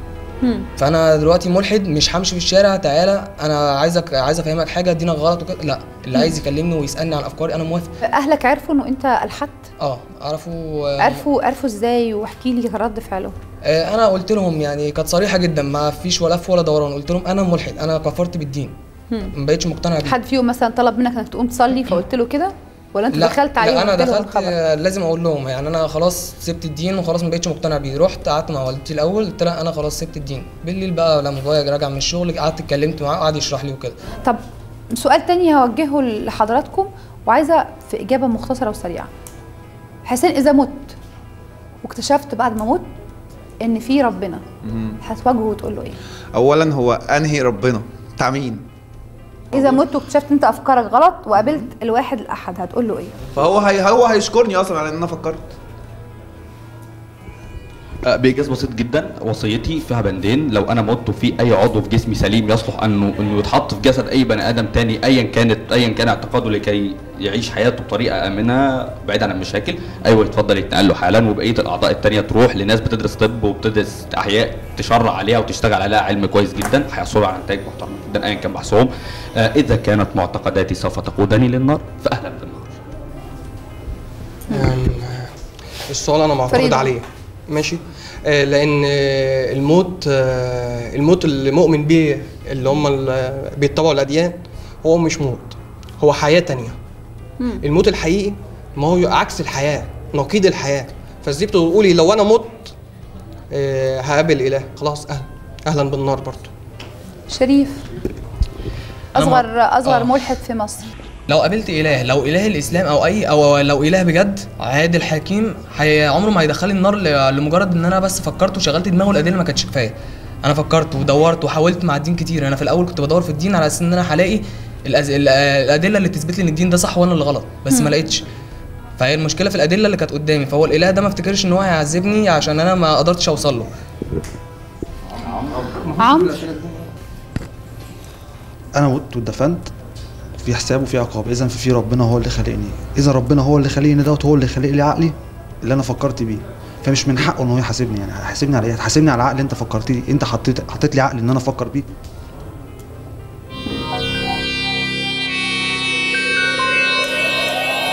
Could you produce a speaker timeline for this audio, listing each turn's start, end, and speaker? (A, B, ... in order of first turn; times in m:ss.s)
0:00.4-0:00.7 A
0:00.8-0:07.9 B
0:08.0-0:09.6 A
0:09.8-0:11.2 B
0:11.0-0:13.3 A
0:13.6-0:18.7 B
0:19.3-0:20.2 B
0:20.0-0:24.5 A
0:23.1-0:34.0 B
0:34.9-0:39.1 A
0:40.0-0:41.0 A
0:41.8-0:42.9 A
0:43.6-0:44.4 A
0:44.6-0:45.0 C
0:45.0-0:46.0 A
0:46.3-0:48.6 C
0:49.5-0:53.2 A
0:53.3-0:55.5 C
0:58.1-1:18.9 D
1:19.4-1:22.8 D
1:24.5-1:25.3 E
1:25.9-1:36.8 E
1:26.5-1:27.0 A
1:37.6-1:42.7 E
1:43.5-1:46.5 E
1:47.3-1:47.9 A
1:49.1-1:50.9 A
1:49.2-1:50.2 B
1:51.3-2:08.2 B
2:07.7-2:07.9 A
2:09.0-2:13.7 B
2:15.3-2:16.8 E
2:16.0-2:16.4 A
2:18.7-2:19.7 F
2:20.4-2:31.9 F